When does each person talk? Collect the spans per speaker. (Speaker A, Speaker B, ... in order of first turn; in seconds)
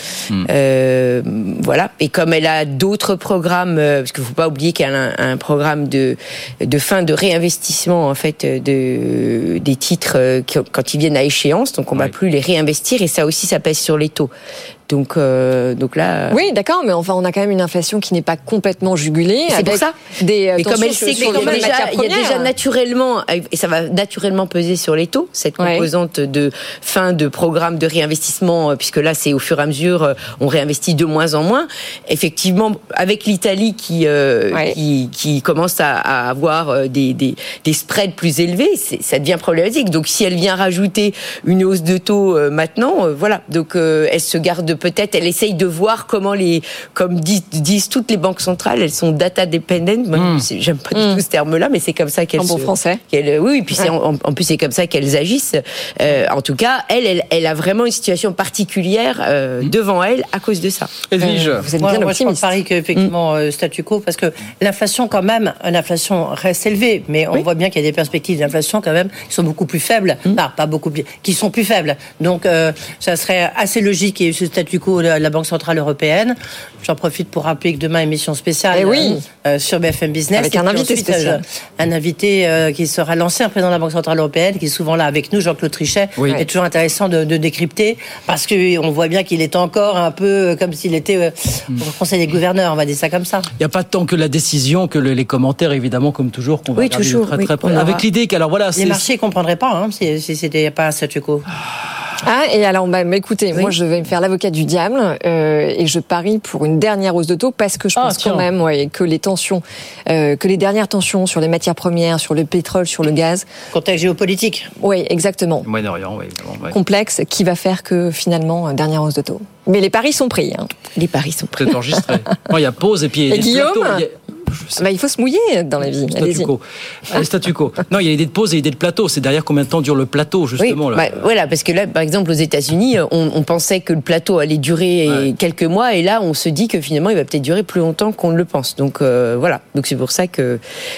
Speaker A: 0.4-14.3, 14.9-16.4, 19.5-61.0, 96.8-98.0, 120.9-121.8, 130.6-140.6
Speaker B: 16.3-22.5, 25.6-25.9, 50.9-51.2, 52.4-53.0, 61.2-62.6, 78.7-79.2, 80.3-81.4, 102.2-113.5, 114.8-115.7, 116.7-120.8, 123.3-124.0, 124.8-126.5
Speaker C: 50.1-50.5, 61.0-61.7, 93.6-99.1, 108.0-108.5, 115.7-116.8, 121.6-124.8, 126.1-131.1
Speaker D: 61.8-93.5, 98.8-101.4, 113.7-114.7